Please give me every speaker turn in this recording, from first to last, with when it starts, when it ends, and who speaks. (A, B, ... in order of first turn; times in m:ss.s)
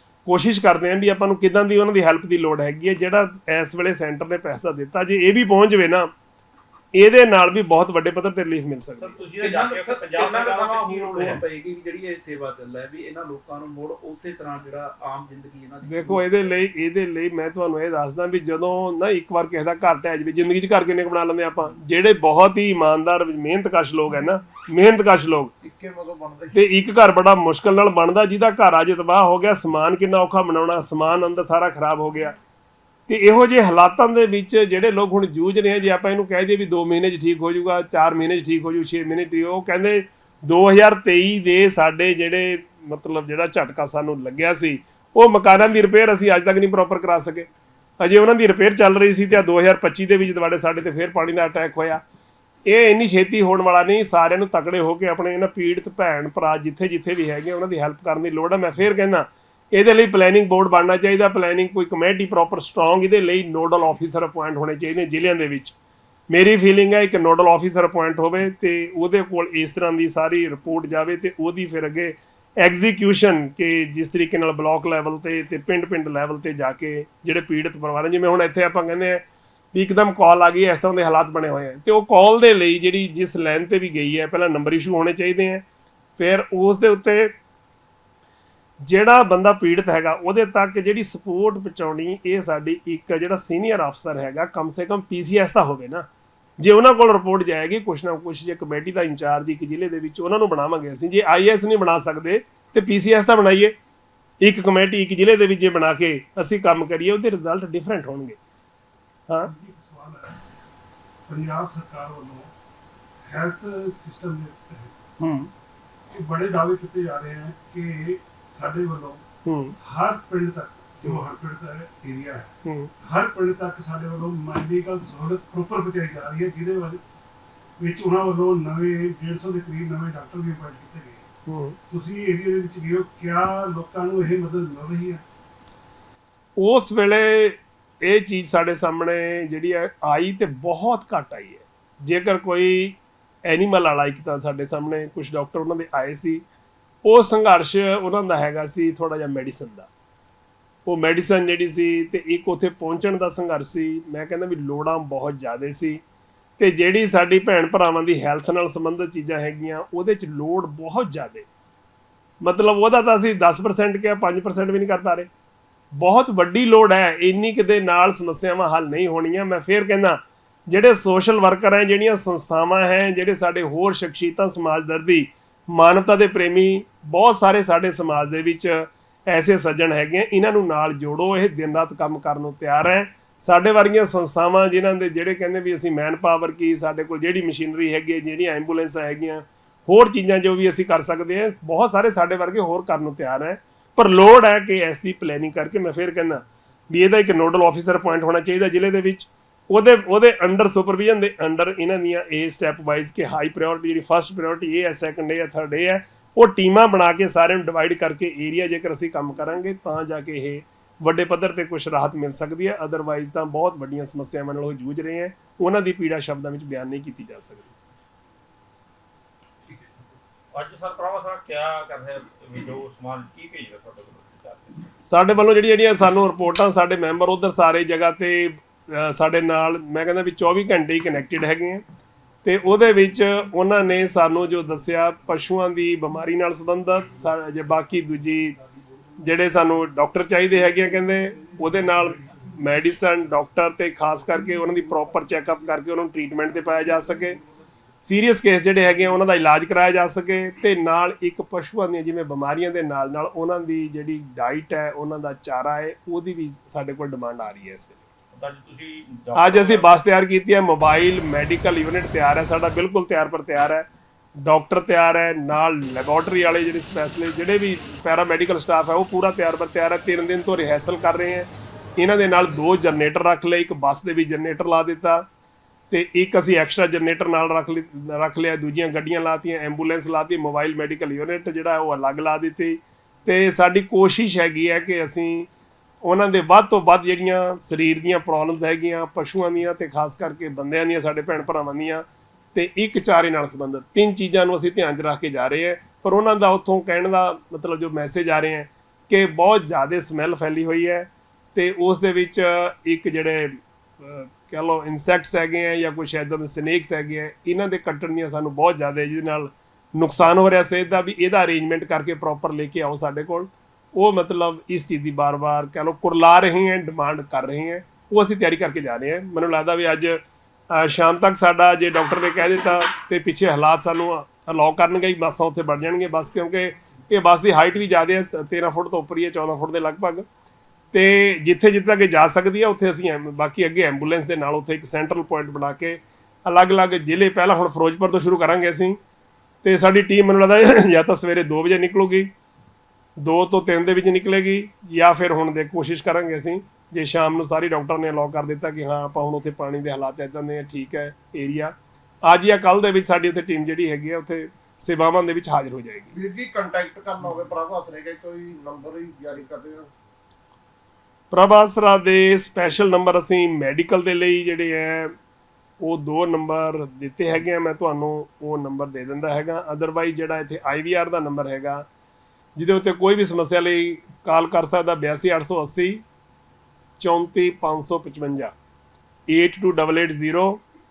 0:00.3-0:06.1 A
0:07.0-0:09.2 A
0:09.0-0:11.4 B
0:09.4-0:16.6 C
0:15.8-0:25.5 A
0:25.6-0:26.6 D
0:26.5-0:32.4 A
0:33.1-0:47.5 A
0:48.0-0:52.0 A
0:52.7-1:05.8 A
1:06.3-1:19.2 A
1:19.7-1:25.6 A
1:26.2-1:27.3 A
1:28.8-1:36.1 A
1:36.6-1:43.8 A
1:44.4-1:48.4 A
1:49.4-1:50.4 E
1:51.3-1:52.5 E
1:53.3-1:55.0 E
1:55.2-1:55.5 A
1:56.1-1:59.2 E
1:59.4-1:59.8 A
1:59.8-2:07.0 E
2:02.6-2:02.9 A
2:07.8-2:11.3 E
2:11.5-2:11.8 A
2:11.9-2:15.2 E
2:16.6-2:26.4 A
2:27.0-2:29.9 A
2:30.9-2:36.0 A
2:36.6-2:41.5 A
2:42.4-2:45.3 A
2:46.0-3:37.7 A
3:40.5-3:44.8 B
3:45.1-3:51.8 A
3:52.4-3:58.6 A
3:59.2-4:07.4 A
4:08.0-4:18.0 A
4:18.3-4:19.9 B
4:19.4-4:23.9 A
4:24.4-4:35.3 A
4:35.9-4:45.5 A
4:46.0-5:30.3 A
5:30.9-5:39.0 A
5:39.6-5:42.3 A
5:43.2-5:56.1 A
5:56.1-5:59.9 D
6:01.3-6:05.1 A
6:05.8-6:11.9 A
6:12.6-6:16.0 A
6:17.0-6:18.5 A
6:19.3-6:20.6 A